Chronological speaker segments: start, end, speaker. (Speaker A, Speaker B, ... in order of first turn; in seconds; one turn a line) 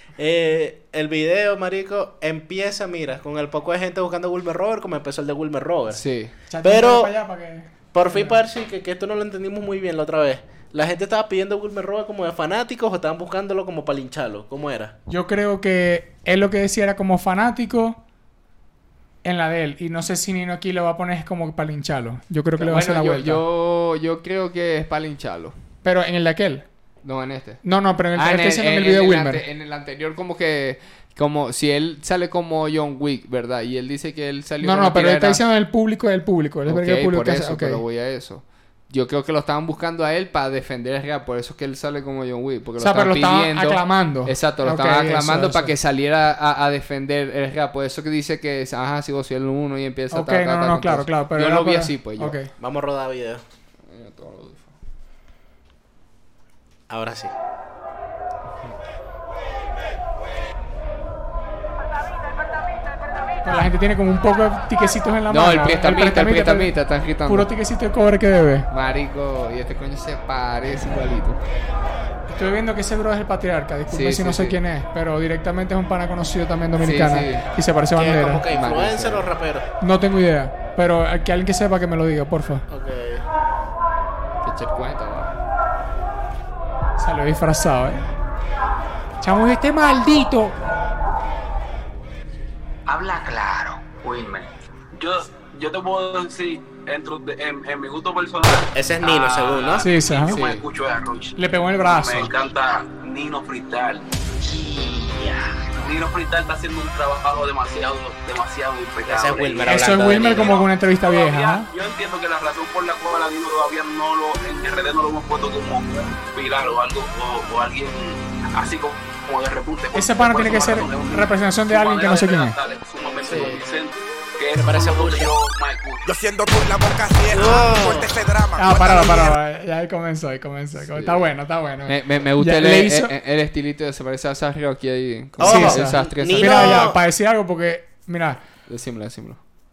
Speaker A: 0.1-6.0
Speaker B: 5.9-6.3
Speaker C: 6.5-8.4
Speaker A: 6.6-7.1
Speaker A: 7.9-15.0
Speaker C: 15.1-18.0
Speaker C: 19.2-23.4
Speaker B: 22.6-25.6
Speaker C: 25.8-26.6
Speaker B: 27.0-27.6
Speaker C: 27.6-29.4
Speaker B: 28.1-35.4
Speaker C: 34.6-37.8
Speaker B: 36.7-52.4
Speaker C: 42.8-45.7
Speaker C: 50.1-52.5
Speaker A: 52.6-53.4
Speaker B: 53.9-54.8
Speaker A: 56.9-57.3
Speaker C: 63.4-68.7
Speaker B: 65.3-67.5
Speaker B: 68.7-71.4
Speaker C: 72.3-78.5
Speaker B: 73.9-74.6
Speaker B: 76.8-77.5
Speaker A: 78.0-79.7
Speaker B: 78.5-79.3
Speaker C: 79.8-82.6
Speaker A: 82.7-83.2
Speaker B: 84.4-85.4
Speaker C: 87.0-88.0
Speaker C: 89.2-90.6
Speaker D: 92.9-126.1
Speaker A: 98.8-99.9
Speaker C: 99.8-100.4
Speaker B: 100.3-100.6
Speaker C: 101.4-102.3
Speaker A: 109.0-110.6
Speaker C: 109.7-111.7
Speaker C: 119.9-122.6
Speaker A: 123.0-123.6
Speaker A: 124.5-125.3
Speaker E: 126.0-129.4
Speaker A: 127.3-128.1
Speaker C: 128.6-133.1
Speaker B: 130.9-131.3
Speaker B: 131.9-136.9
Speaker A: 135.4-137.0
Speaker C: 135.4-138.4
Speaker B: 138.7-139.4